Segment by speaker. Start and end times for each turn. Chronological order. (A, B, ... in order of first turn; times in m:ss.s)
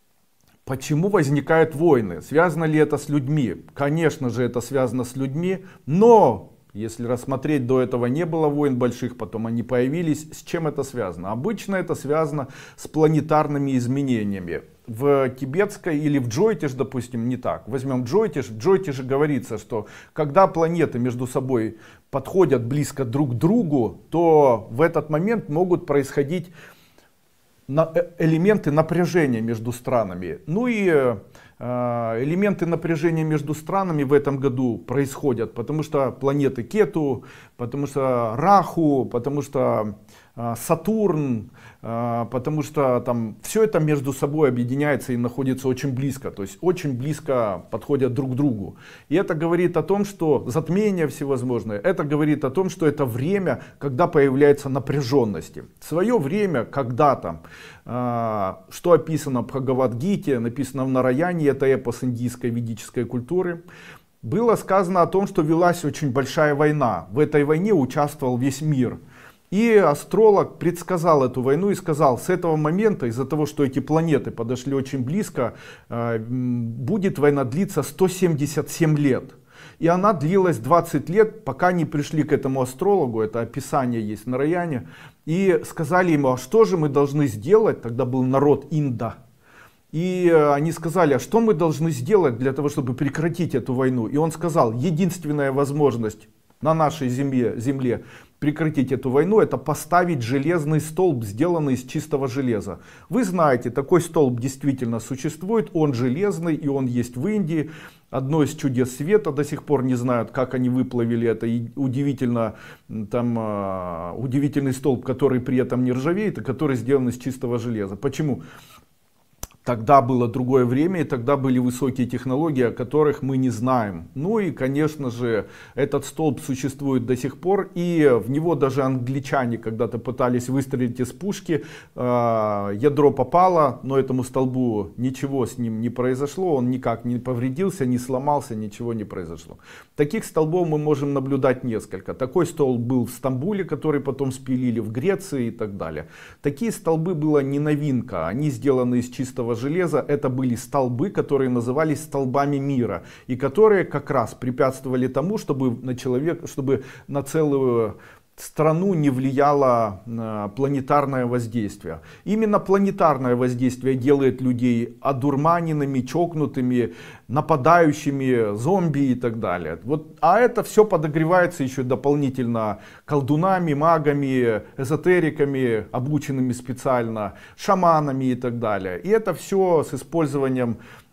0:00.7-0:26.5 A
0:27.7-1:03.6 A
1:04.2-1:09.0 A
1:09.5-1:29.2 A
1:29.9-1:58.4 A
1:59.6-3:00.8 A